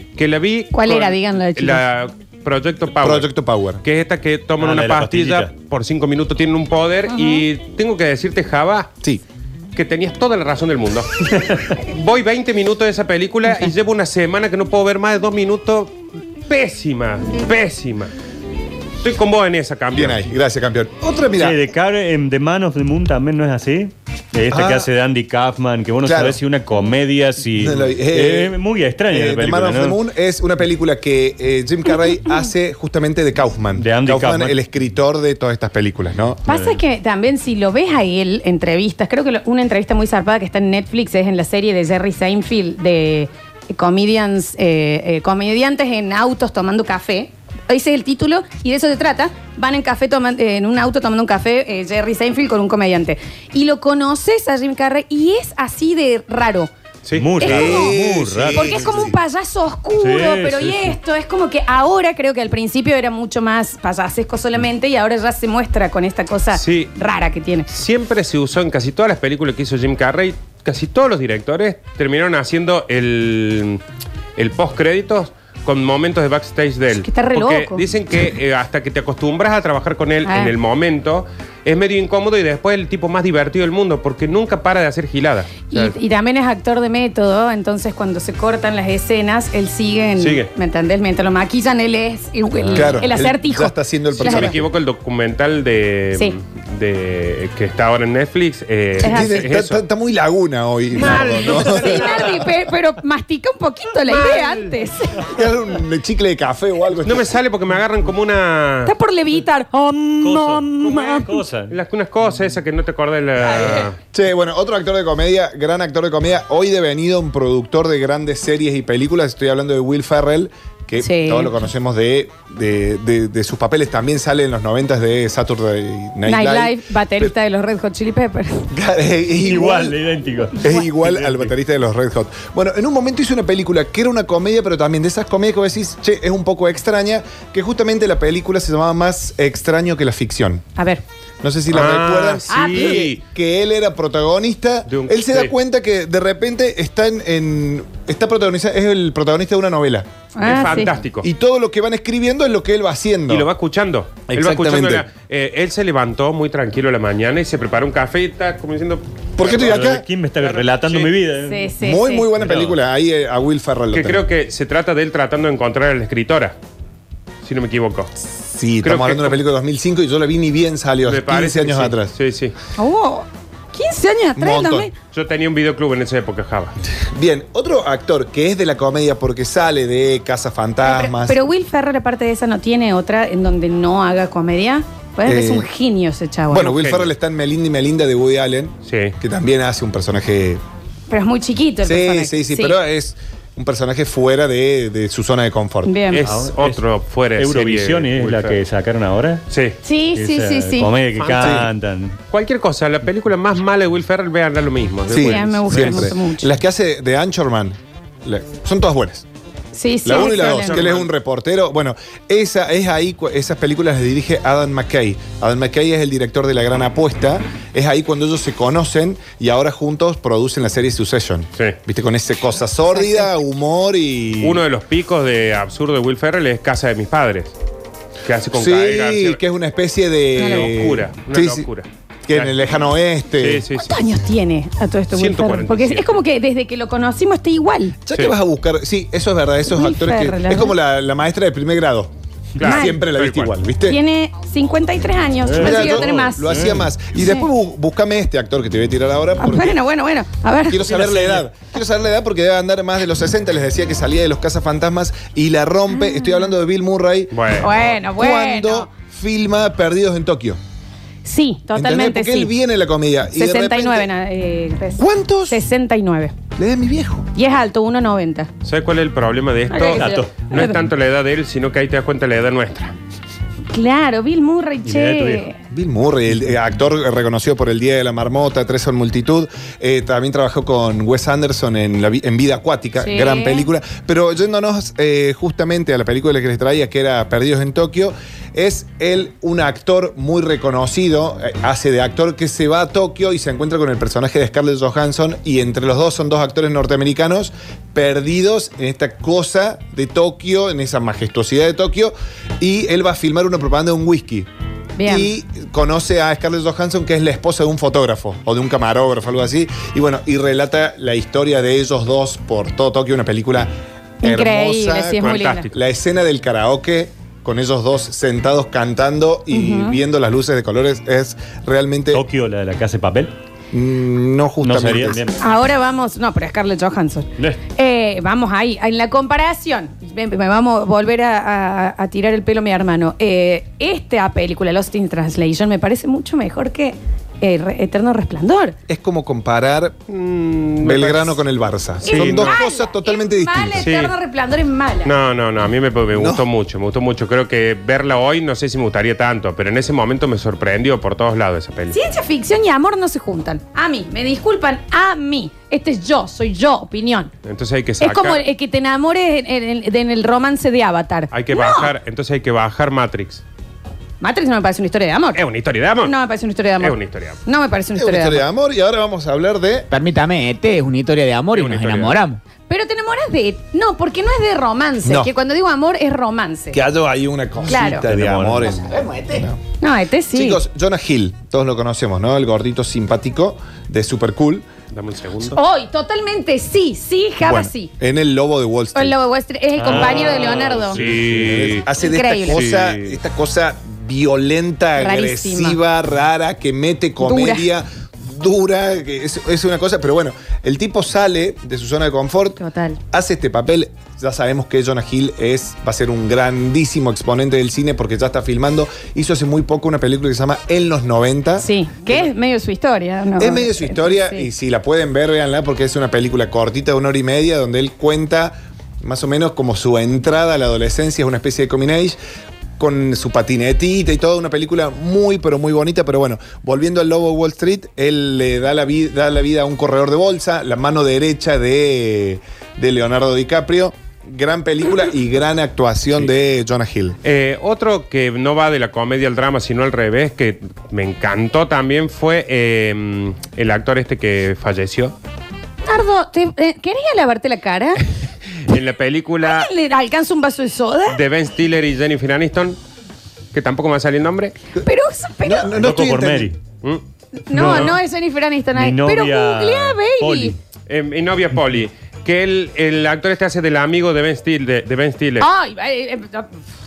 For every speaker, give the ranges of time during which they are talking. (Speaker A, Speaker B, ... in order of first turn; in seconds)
Speaker A: 0.1-3.3, 3.8-8.9, 9.8-11.1, 11.8-18.1, 19.0-20.3, 57.0-57.3, 66.5-66.9, 67.7-73.8, 74.4-86.0, 90.2-90.5, 94.2-99.8, 101.0-102.5, 104.1-104.6, 107.0-108.9, 111.7-114.0, 141.7-143.2, 144.9-145.5, 150.4-151.3, 153.3-159.7, 160.4-161.1, 163.9-166.5, 167.4-168.1, 168.8-169.4, 171.0-172.5, 175.1-176.8, 186.6-187.1, 188.9-189.1, 196.1-198.6, 199.5-199.8, 201.2-201.6, 202.3-205.9, 210.1-211.1, 224.4-227.5, 228.2-229.4, 230.4-232.5, 233.4-234.0, 235.2-236.1, 242.6-243.5, 257.3-257.7, 268.6-272.9, 315.2-315.7, 340.1-341.4, 342.0-342.6, 343.8-344.1, 345.0-352.0, 357.4-358.4, 361.3-363.4, 365.3-366.1, 366.8-367.4, 371.5-372.2, 384.9-385.6, 389.9-391.9, 392.5-393.2, 437.2-445.1, 448.7-449.7, 451.1-452.8, 453.5-454.5, 457.6-457.9, 460.9-465.5
Speaker B: 0.7-1.8, 7.1-7.4, 36.5-56.7, 57.4-58.0, 58.5-67.7, 77.0-77.8, 80.2-80.5, 85.7-94.5, 99.0-99.4, 101.0-105.2, 108.9-111.3, 121.0-121.5, 126.2-128.7, 140.8-141.0, 142.5-143.1, 150.4-150.9, 161.4-162.3, 172.8-174.9, 180.8-186.8, 191.1-192.8, 195.8-196.2, 199.8-200.9, 205.1-206.5, 209.7-210.8, 222.9-223.3, 230.4-230.7, 233.8-238.0, 239.7-240.8, 242.6-243.0, 243.8-246.6, 247.2-247.5, 249.4-251.0, 255.9-256.4, 257.6-258.9, 261.2-262.5, 263.4-266.3, 267.3-268.5, 269.7-270.8, 273.7-275.6, 283.0-283.6, 305.0-305.3, 314.2-315.7, 319.5-320.0, 325.4-338.8, 342.0-345.1, 351.9-357.3, 358.0-361.9, 364.2-365.4, 366.0-368.4, 372.7-376.8, 377.7-378.0, 379.8-380.6, 385.5-387.9, 388.9-391.0, 392.0-392.6, 395.0-395.8, 397.2-397.7, 402.6-403.0, 411.6-414.5, 445.8-448.0, 449.4-451.2, 454.8-455.7, 457.4-460.5, 465.4-466.5
Speaker C: 3.0-3.8, 19.9-21.6, 24.5-24.9, 26.0-26.4, 27.6-36.4, 57.4-59.1, 92.8-94.6, 99.0-102.2, 105.2-107.4, 114.1-127.3, 128.7-130.0, 130.6-140.7, 141.4-150.1, 151.2-153.5, 154.3-155.1, 159.4-160.0, 161.8-164.2, 168.4-172.1, 174.4-174.9, 177.1-181.4, 185.2-185.7, 186.5-190.6, 191.8-196.0, 201.4-201.7, 205.1-209.2, 210.0-224.6, 228.5-231.7, 232.3-233.7, 238.1-244.0, 245.6-249.8, 250.7-260.6, 261.8-264.1, 265.0-265.6, 266.6-267.3, 275.7-304.5, 305.0-322.2, 323.7-325.2, 338.9-340.0, 340.8-343.8, 346.1-346.4, 368.0-369.9, 375.0-375.3, 376.7-379.6, 380.3-384.7, 387.4-389.2, 390.9-402.6, 403.1-412.3, 413.4-422.2, 422.8-437.2, 455.4-456.5
Speaker D: 4.6-5.5, 21.4-30.0, 33.8-34.5, 36.5-36.8, 57.1-58.9, 60.0-61.0, 110.2-111.7, 129.4-131.5, 159.4-161.7, 162.4-162.7, 196.2-196.8, 197.4-199.4, 200.1-202.2, 245.4-246.9, 251.0-251.4, 269.9-270.7, 274.8-275.5, 322.1-323.3, 324.6-325.4, 377.9-378.8, 389.8-390.8, 455.7-456.6, 457.5-458.0, 458.8-460.6
Speaker E: 369.9-372.4, 378.9-379.4